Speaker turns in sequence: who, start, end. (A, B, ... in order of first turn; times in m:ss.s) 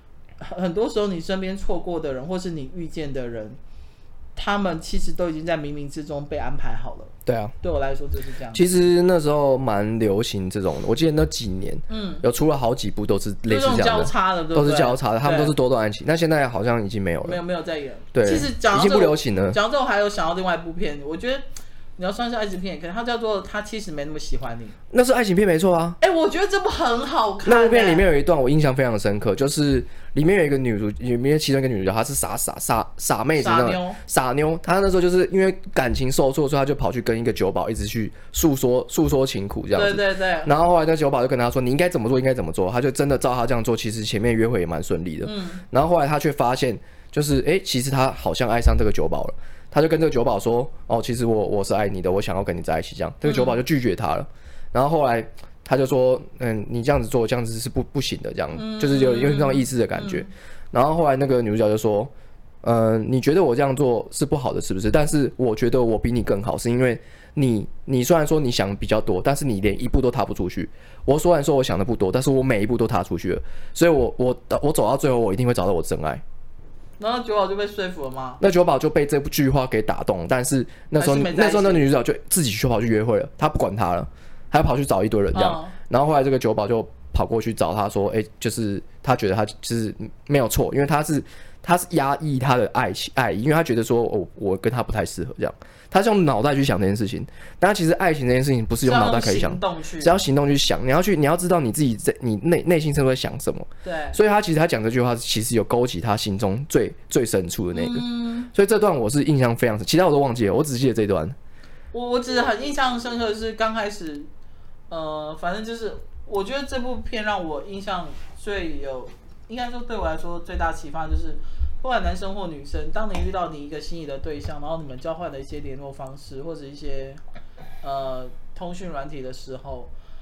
0:00.4-0:03.6 A
0:04.4-0:08.7 A
0:07.3-0:07.6 B
0:08.5-0:17.4 B
0:11.9-0:12.2 A
0:13.5-0:15.5 A
0:17.2-0:21.4 A
0:18.1-0:19.6 B
0:22.0-0:24.7 A
0:24.9-0:26.0 B
0:26.0-0:28.0 A
0:27.4-1:02.1 B
0:33.4-0:34.0 A
0:39.7-0:40.5 A
0:45.2-0:45.6 A
0:53.2-0:53.6 A
0:58.5-1:00.3 A
1:02.6-1:16.2 B
1:17.0-1:18.4 A
1:18.4-1:51.4 B
1:21.0-1:21.9 A
1:25.3-1:25.7 A
1:38.8-1:40.1 A
1:43.8-1:44.2 A
1:47.7-1:48.5 A
1:51.9-1:54.3 A
1:54.9-2:07.2 A
2:07.8-2:09.9 A